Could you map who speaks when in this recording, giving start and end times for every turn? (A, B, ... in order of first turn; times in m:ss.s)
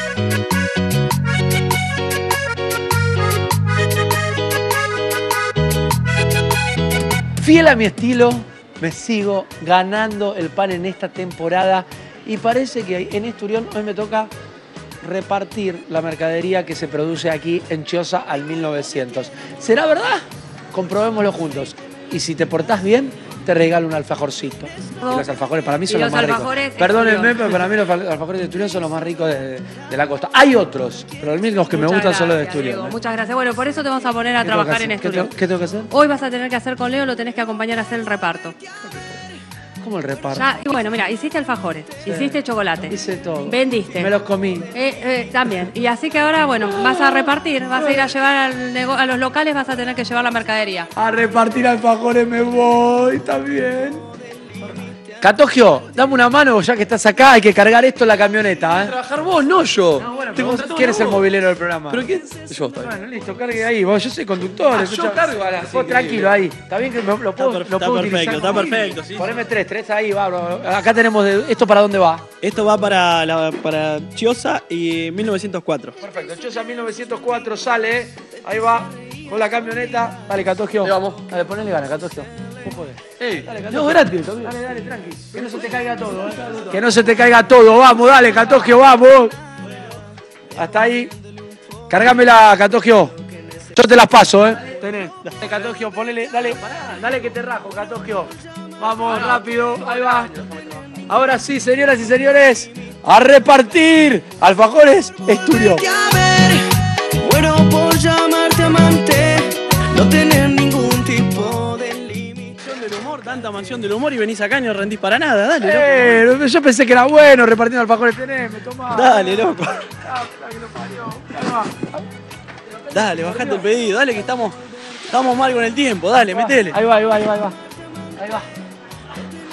0:07.4-0:14.3 A
0:15.0-0:33.0 A
0:25.9-0:27.6 B
0:31.7-0:35.3 B
0:34.4-0:35.9 A
0:35.9-0:38.6 B
0:39.8-0:40.4 A
0:40.3-0:44.1 B
0:42.0-0:44.7 A
0:44.7-0:50.9 B
0:47.7-0:48.1 A
0:50.9-0:54.0 A
0:55.2-0:58.9 A
0:58.8-1:01.2 C
1:00.0-1:02.0 A
1:01.9-1:02.9 C
1:02.8-1:12.3 A
1:04.7-1:06.4 C
1:07.4-1:09.3 D
1:12.4-1:16.0 D
1:16.0-1:29.3 A
1:20.8-1:21.2 C
1:23.2-1:24.1 C
1:30.5-1:31.1 A
1:31.9-1:33.1 A
1:33.7-1:40.3 A
1:39.1-1:39.4 C
1:41.1-1:45.8 A
1:45.8-1:46.6 E
1:47.2-1:52.5 E
1:52.6-1:56.3 D
1:55.6-2:01.9 A
1:58.9-1:59.8 D
2:02.9-2:04.6 D
2:03.0-2:03.6 A
2:05.1-2:06.8 D
2:06.3-2:07.6 A
2:08.2-2:08.4 A